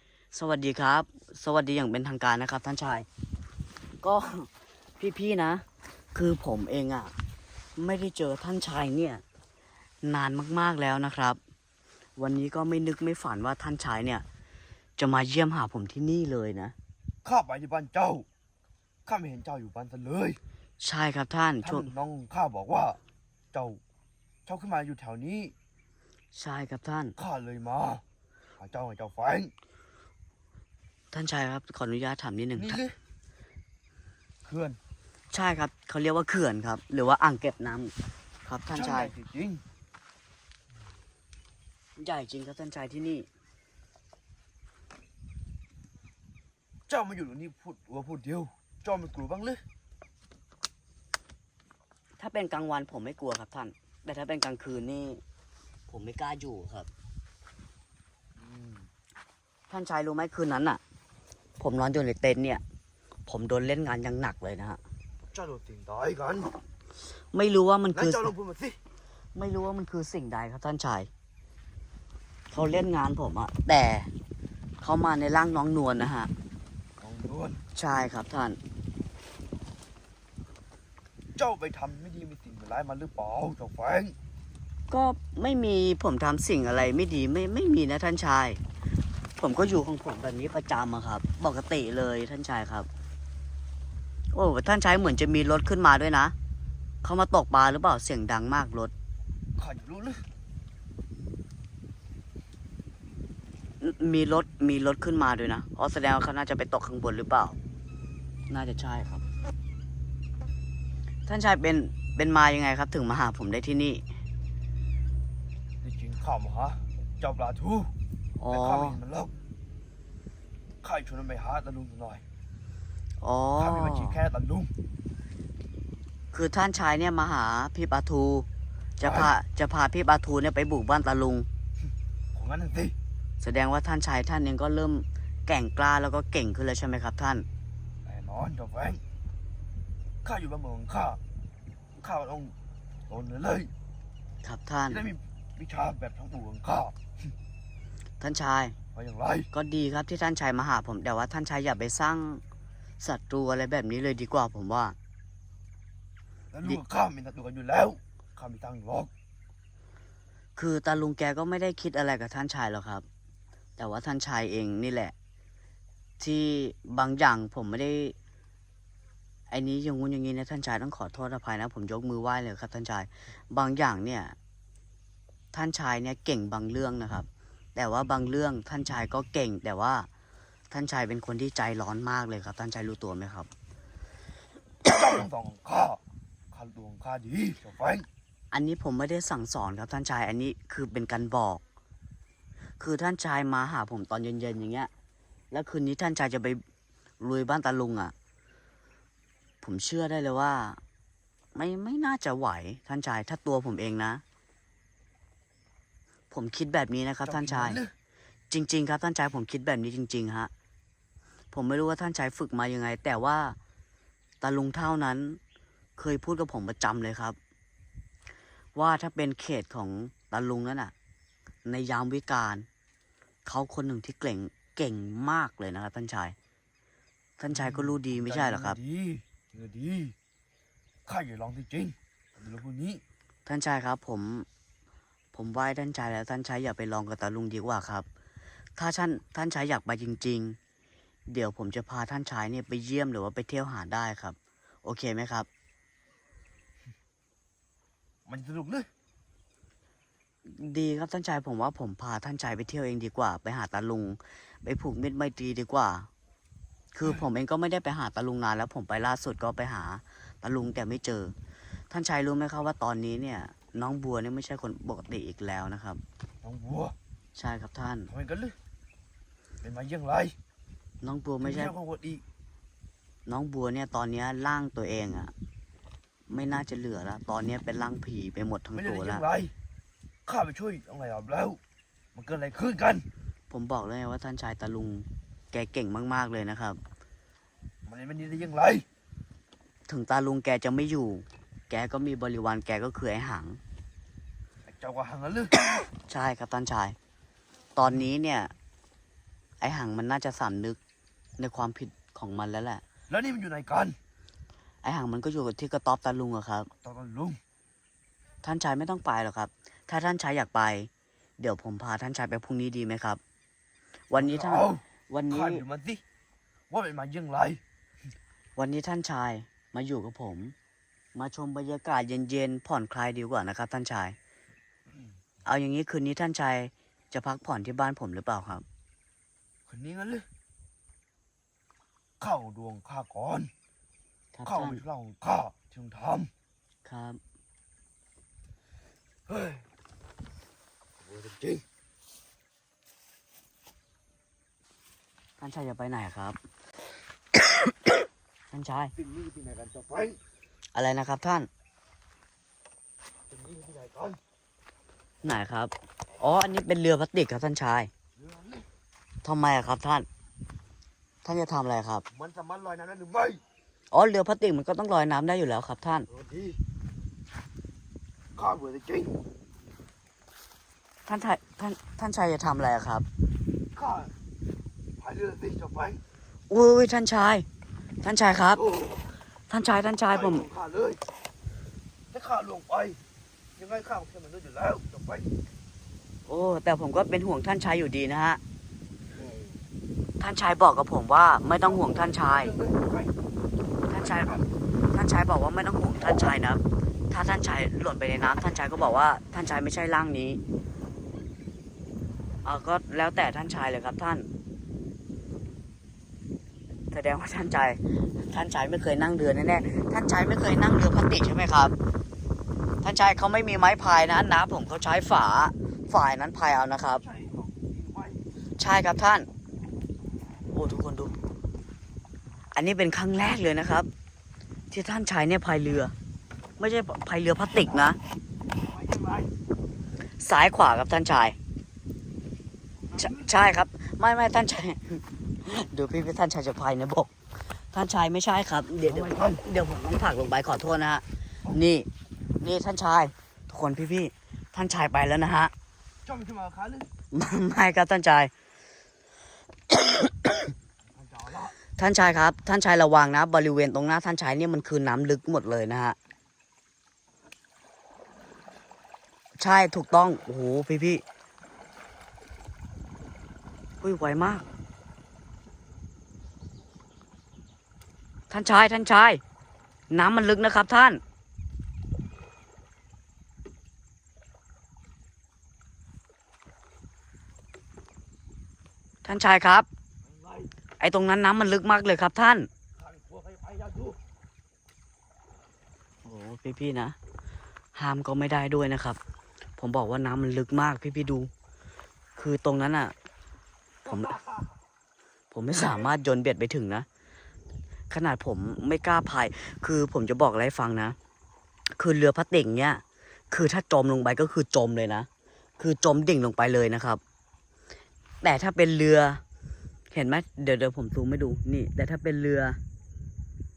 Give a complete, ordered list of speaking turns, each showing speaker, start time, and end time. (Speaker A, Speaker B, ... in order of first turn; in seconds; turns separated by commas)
Speaker A: 0.3-3.1, Speaker A: 4.0-7.1, Speaker A: 7.8-9.2, Speaker A: 10.0-11.4, Speaker A: 12.2-14.2, Speaker A: 15.0-16.8, Speaker B: 17.2-18.2, Speaker B: 19.1-20.4, Speaker A: 20.8-21.9, Speaker B: 21.6-23.0, Speaker B: 23.5-23.8, Speaker B: 24.4-25.5, Speaker A: 26.3-27.1, Speaker B: 27.2-28.0, Speaker B: 28.6-29.5, Speaker A: 31.1-32.8, Speaker B: 32.5-33.0, Speaker B: 34.4-34.8, Speaker A: 35.3-37.9, Speaker A: 38.5-39.1, Speaker B: 38.7-39.6, Speaker A: 42.0-43.3, Speaker B: 46.9-49.6, Speaker A: 52.2-55.2, Speaker A: 55.9-56.9, Speaker B: 58.4-58.9, Speaker A: 59.7-60.8, Speaker A: 61.6-62.6, Speaker A: 63.3-64.8, Speaker B: 65.3-66.6, Speaker A: 67.3-68.3, Speaker B: 67.9-68.8, Speaker A: 69.3-71.1, Speaker A: 72.5-74.1, Speaker A: 74.8-76.3, Speaker B: 77.0-77.6, Speaker A: 77.8-78.6, Speaker B: 81.4-84.1, Speaker A: 84.9-88.6, Speaker A: 89.4-92.9, Speaker A: 94.3-96.3, Speaker A: 97.0-98.9, Speaker B: 99.6-100.2, Speaker A: 103.8-107.6, Speaker A: 108.5-109.2, Speaker A: 111.3-114.0, Speaker B: 115.8-117.9, Speaker A: 118.4-119.0, Speaker B: 118.5-119.3, Speaker B: 120.8-122.2, Speaker A: 123.2-124.2, Speaker B: 123.6-124.7, Speaker A: 126.3-128.5, Speaker A: 129.0-131.5, Speaker B: 129.0-129.3, Speaker B: 132.3-132.9, Speaker A: 133.4-137.5, Speaker B: 138.0-139.0, Speaker B: 140.2-141.2, Speaker B: 142.0-142.5, Speaker B: 143.1-143.7, Speaker A: 144.4-145.1, Speaker B: 144.9-147.0, Speaker A: 148.2-148.8, Speaker B: 148.9-149.5, Speaker A: 149.5-152.4, Speaker A: 153.0-155.0, Speaker B: 156.5-159.1, Speaker A: 160.6-163.0, Speaker A: 163.8-165.1, Speaker A: 166.2-168.1, Speaker A: 169.5-174.4, Speaker A: 175.5-180.1, Speaker A: 180.7-183.5, Speaker B: 184.9-188.1, Speaker A: 188.5-191.6, Speaker A: 192.8-194.9, Speaker A: 195.5-196.6, Speaker A: 197.2-198.1, Speaker A: 199.6-200.8, Speaker A: 201.5-204.2, Speaker A: 206.3-207.8, Speaker B: 207.2-207.9, Speaker A: 208.5-210.5, Speaker A: 211.5-213.6, Speaker A: 214.4-215.4, Speaker A: 216.0-217.4, Speaker A: 218.8-220.9, Speaker A: 221.6-222.7, Speaker A: 223.4-226.4, Speaker A: 227.4-228.8, Speaker B: 227.5-230.1, Speaker B: 231.1-233.0, Speaker A: 233.5-234.5, Speaker A: 235.3-238.1, Speaker A: 238.8-240.6, Speaker A: 241.3-245.5, Speaker B: 248.2-248.9, Speaker A: 250.5-256.1, Speaker A: 256.9-261.3, Speaker A: 261.9-266.0, Speaker B: 266.4-266.9, Speaker A: 267.4-268.1, Speaker B: 268.1-268.6, Speaker B: 269.6-270.4, Speaker A: 271.0-271.7, Speaker B: 271.4-272.2, Speaker A: 273.2-275.3, Speaker A: 276.3-279.2, Speaker B: 278.7-279.5, Speaker B: 280.2-281.6, Speaker B: 282.1-283.1, Speaker A: 283.5-286.8, Speaker B: 287.9-288.9, Speaker A: 289.9-293.6, Speaker B: 294.6-295.5, Speaker A: 296.0-297.0, Speaker A: 297.8-298.5, Speaker A: 299.6-300.8, Speaker A: 301.4-302.8, Speaker B: 303.1-304.0, Speaker A: 304.8-306.7, Speaker B: 306.8-307.4, Speaker A: 308.4-313.2, Speaker A: 314.1-315.6, Speaker B: 314.1-316.0, Speaker B: 316.7-317.6, Speaker A: 318.6-320.5, Speaker A: 321.1-324.2, Speaker A: 325.4-328.6, Speaker B: 329.7-330.2, Speaker B: 332.2-333.5, Speaker A: 334.4-334.8, Speaker B: 334.5-336.3, Speaker A: 336.9-337.2, Speaker B: 339.3-339.6, Speaker B: 341.0-341.6, Speaker A: 345.4-346.4, Speaker A: 347.4-347.7, Speaker A: 348.5-348.9, Speaker B: 349.0-350.2, Speaker A: 350.8-351.5, Speaker B: 353.3-354.2, Speaker A: 355.2-357.9, Speaker B: 358.2-358.7, Speaker A: 359.2-360.1, Speaker A: 361.2-362.0, Speaker B: 362.1-363.4, Speaker A: 363.9-366.1, Speaker B: 366.1-366.6, Speaker B: 368.4-369.2, Speaker A: 371.1-373.1, Speaker B: 373.7-374.1, Speaker B: 375.0-376.0, Speaker A: 376.5-377.5, Speaker A: 378.0-378.6, Speaker B: 378.5-379.1, Speaker A: 379.5-380.5, Speaker B: 380.1-381.0, Speaker B: 382.1-383.0, Speaker B: 383.6-385.3, Speaker A: 386.3-388.4, Speaker B: 389.1-389.6, Speaker A: 390.2-392.5, Speaker B: 391.6-393.2, Speaker A: 393.9-394.4, Speaker B: 393.9-394.5, Speaker A: 394.9-400.4, Speaker A: 402.4-404.3, Speaker A: 406.9-411.8, Speaker A: 412.8-417.0, Speaker B: 416.9-418.2, Speaker A: 418.6-419.3, Speaker A: 420.5-421.1, Speaker A: 422.5-423.9, Speaker A: 424.7-425.9, Speaker A: 426.6-428.0, Speaker B: 428.6-429.3, Speaker A: 430.2-431.4, Speaker B: 432.9-433.3, Speaker A: 433.0-437.1, Speaker A: 437.7-445.5, Speaker B: 438.8-439.4, Speaker B: 446.0-446.9, Speaker A: 447.1-448.3, Speaker A: 449.7-450.5, Speaker B: 450.9-451.5, Speaker A: 451.8-456.0, Speaker A: 459.4-461.0, Speaker A: 463.8-464.5, Speaker A: 468.3-469.2, Speaker A: 469.9-471.0, Speaker A: 479.0-479.7, Speaker B: 480.0-480.5, Speaker A: 480.8-482.5, Speaker B: 482.8-484.0, Speaker A: 486.0-487.0, Speaker A: 487.8-489.0, Speaker A: 489.6-491.3, Speaker A: 492.1-492.9, Speaker A: 493.9-494.2, Speaker B: 493.9-494.4, Speaker A: 495.3-496.9, Speaker A: 497.9-501.0, Speaker A: 501.8-505.1, Speaker A: 505.6-507.0, Speaker A: 508.2-509.2, Speaker A: 509.9-512.6